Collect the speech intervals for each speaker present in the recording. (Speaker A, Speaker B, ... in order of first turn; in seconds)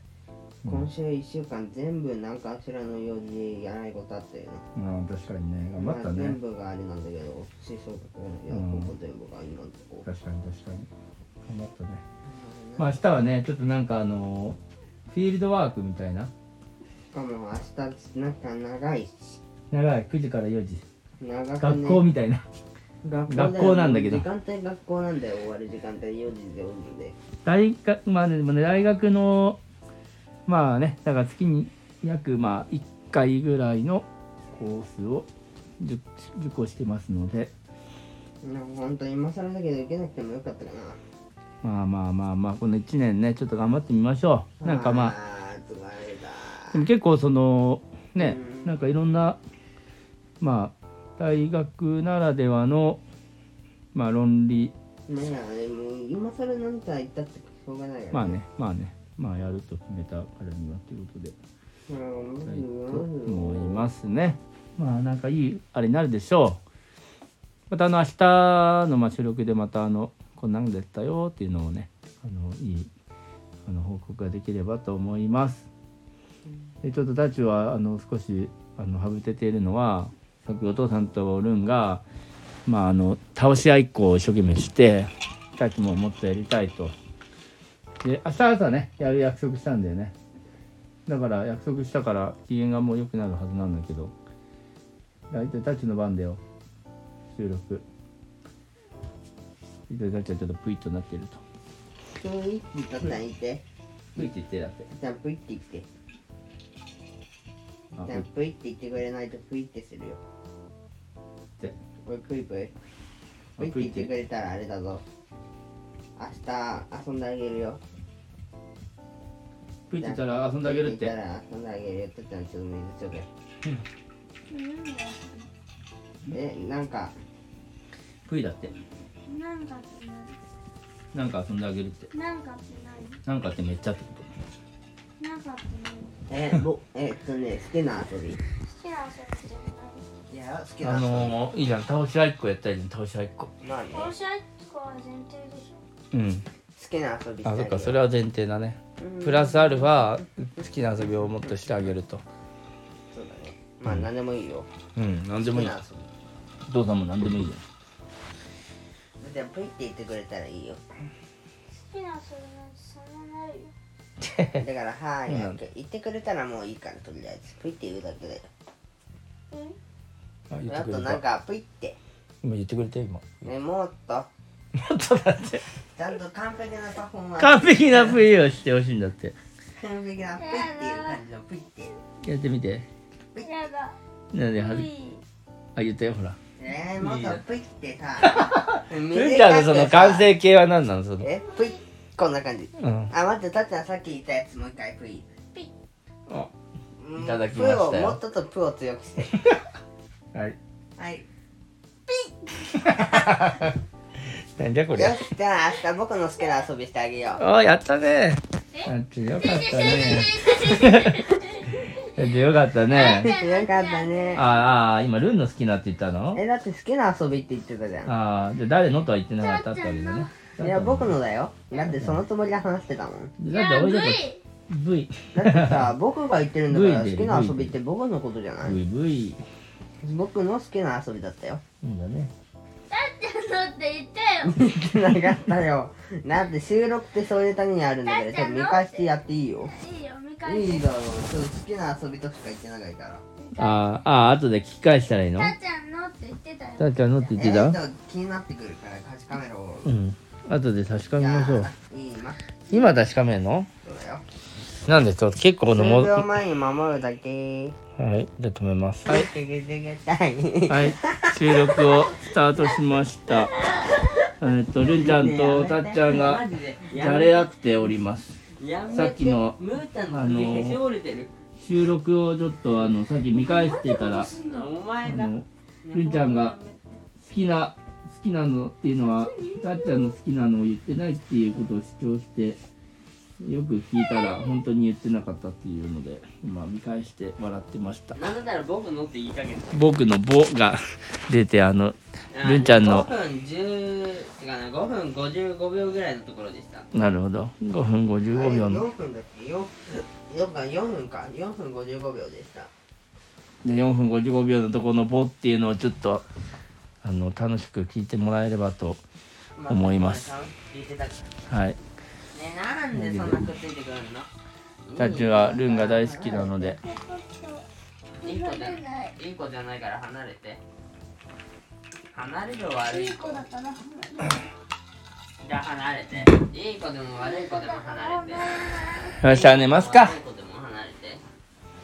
Speaker A: 0.7-4.6, 5.7-10.1, 12.2-12.9, 17.1-19.1, 21.2-22.0, 23.0-27.1, 38.4-41.0, 44.6-46.8, 48.2-48.8, 55.1-58.4, 61.9-63.8, 102.2-103.6, 104.9-105.8, 108.0-110.2, 112.0-112.7, 113.6-115.0, 116.2-117.8, 120.0-123.3, 126.3-127.1, 136.3-138.4, 140.3-141.4, 143.6-144.1, 146.7-148.0, 149.0-150.1, 153.1-154.7, 155.4-156.1, 159.2-160.8, 164.5-168.5, 170.7-172.0, 173.4-174.3, 175.9-178.2, 179.8-181.9, 183.3-183.7, 186.6-190.3, 191.2-195.2, 197.0-199.4, 201.0-201.2, 204.9-207.4, 213.0-214.4, 216.3-218.1, 220.6-223.3, 225.3-228.8, 230.0-231.6, 234.4-239.7, 240.4-243.2, 247.3-249.9, 251.2-252.4, 253.8-254.2, 255.7-257.8, 259.1-262.2, 265.0-267.5, 268.6-271.3, 274.4-276.9, 288.1-289.9, 292.3-296.9, 298.3-302.7, 309.6-311.3, 312.3-314.3, 314.9-316.7, 318.2-320.6, 322.1-323.4, 325.4-328.5, 329.1-331.2
Speaker B: 4.7-6.4, 8.5-8.9, 10.0-10.9, 11.5-12.0, 12.8-16.3, 19.7-20.8, 21.6-22.4, 23.3-24.2, 27.4-29.6, 30.5-35.3, 35.8-37.5, 41.6-45.1, 46.7-49.4, 50.4-53.0, 53.9-54.7, 58.1-61.4, 62.4-66.6, 67.7-72.9, 73.7-75.7, 76.8-82.0, 82.7-86.9, 88.0-90.1, 91.0-94.1, 95.3-96.4, 97.3-97.8, 99.9-101.4, 104.1-104.9, 107.9-108.2, 113.6-114.1, 119.9-121.1, 128.2-128.7, 131.1-132.1, 133.2-134.3, 140.8-143.5, 146.1-146.4, 147.4-152.2, 154.9-155.7, 156.7-157.6, 164.2-164.6, 165.3-165.6, 170.5-171.2, 172.4-173.3, 174.7-175.6, 177.4-179.3, 182.2-182.9, 184.3-184.9, 185.8-186.4, 187.0-187.4, 188.2-191.3, 192.8-193.1, 197.2-198.2, 202.8-203.7, 204.6-205.2, 207.4-211.3, 212.1-213.3, 214.3-216.4, 218.0-221.2, 221.8-222.2, 223.4-225.9, 226.7-227.7, 228.6-229.4, 231.8-232.3, 243.6-245.5, 246.8-247.8, 249.8-251.7, 252.7-253.7, 254.8-256.3, 258.0-259.3, 260.7-263.5, 264.4-268.4, 268.9-269.6, 270.1-270.8, 271.6-274.3, 275.0-276.5, 277.2-282.6, 283.4-288.2, 289.7-293.1, 296.9-298.8, 303.6-306.2, 307.0-309.0, 309.7-310.3, 311.5-311.8, 312.9-313.4, 315.0-316.8, 329.2-330.2
Speaker C: 124.5-125.5, 129.2-130.4, 132.1-133.2, 135.2-136.1, 138.6-140.0, 143.9-145.8, 161.7-163.7, 169.5-169.8, 180.3-181.2, 183.4-183.9, 184.6-185.2, 191.4-191.8, 202.1-202.5, 208.8-211.9, 212.9-214.5, 219.4-220.3, 223.5-224.4, 232.9-234.5, 238.0-239.1, 239.7-240.8, 243.4-244.1, 245.4-247.3, 263.5-263.9, 273.3-274.7, 279.0-280.2, 316.6-317.6, 318.2-319.1, 322.8-324.4, 327.2-329.2